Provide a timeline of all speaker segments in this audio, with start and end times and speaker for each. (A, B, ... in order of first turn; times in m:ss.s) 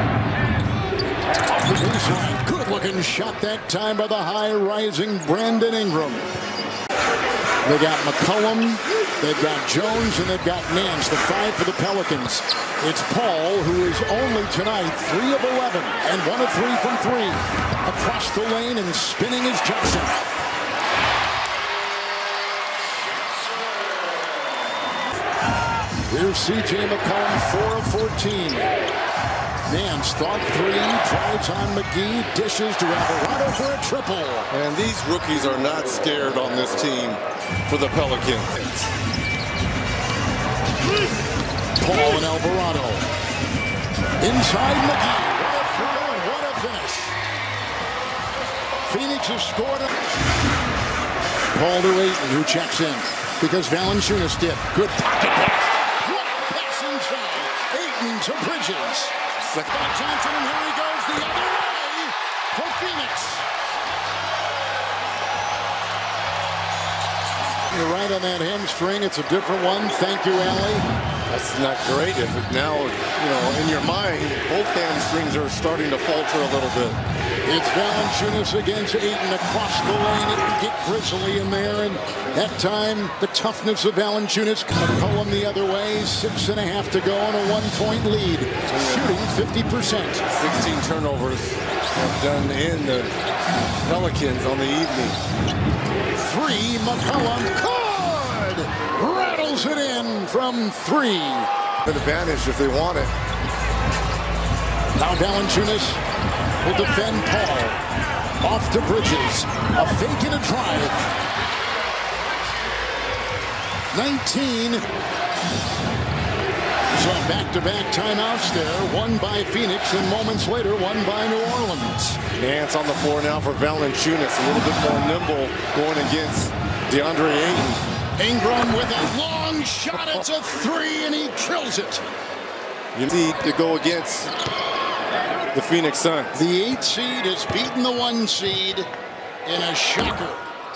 0:01.5-0:06.3 A
0:07.6-0:20.2 A
0:26.1-0:28.7 A
0:29.7-0:34.5 A
0:34.5-0:38.9 B
0:41.8-0:43.1 A
0:44.2-0:47.2 A
0:48.9-0:49.9 A
0:51.5-1:03.5 A
1:07.7-1:10.9 A
1:11.3-1:17.0 B
1:17.4-1:30.2 A
1:28.7-1:29.1 B
1:30.3-1:33.1 B
1:33.8-1:35.2 B
1:36.2-1:41.5 A
1:41.8-1:43.1 B
1:45.0-1:46.0 A
1:46.6-1:47.8 A
1:48.4-1:51.0 A
1:53.9-1:54.8 A
1:56.9-2:02.2 A
2:02.4-2:07.8 B
2:08.2-2:12.0 A
2:13.0-2:14.3 B
2:15.5-2:16.4 B
2:16.3-2:18.9 A
2:19.4-2:20.4 A